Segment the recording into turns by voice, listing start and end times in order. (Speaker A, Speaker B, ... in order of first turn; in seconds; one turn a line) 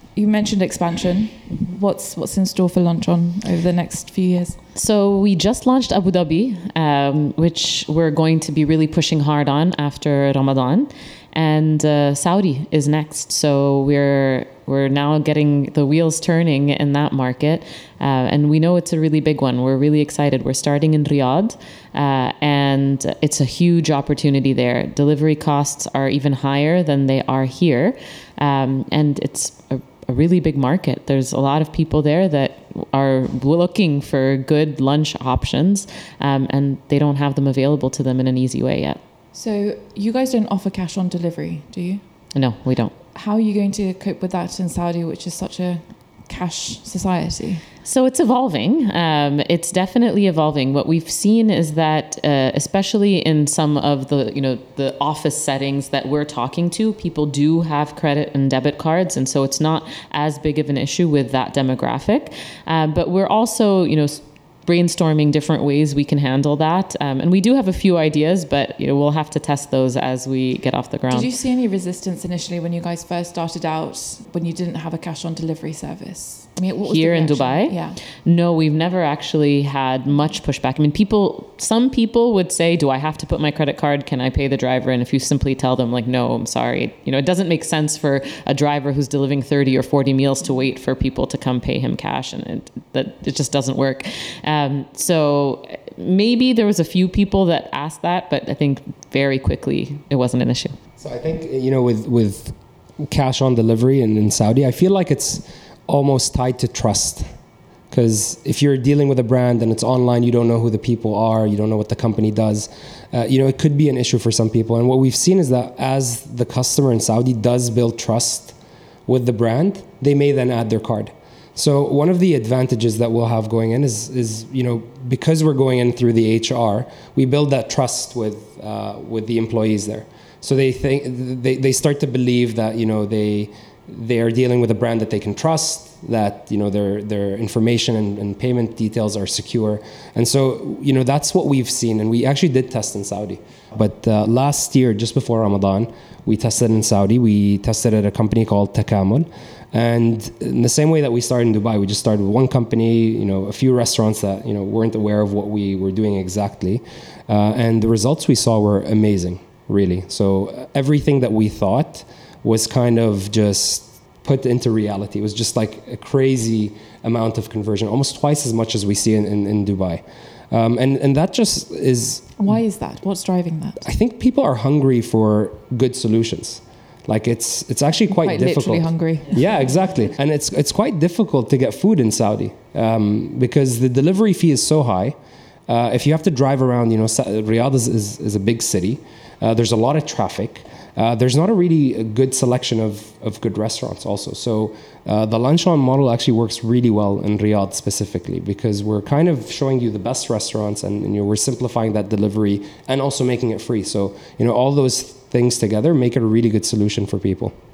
Speaker A: 0.1-4.6
Speaker B: 4.7-39.0
Speaker A: 39.3-42.0
Speaker B: 42.3-42.9
Speaker A: 43.1-47.6
Speaker B: 47.8-71.3
Speaker A: 71.1-78.0
Speaker B: 76.8-100.8
Speaker C: 101.0-107.2
Speaker C: 107.9-118.5
Speaker C: 119.1-172.4
Speaker A: 172.4-173.8
Speaker C: 173.8-185.1
Speaker A: 178.1-179.4
Speaker C: 185.7-207.5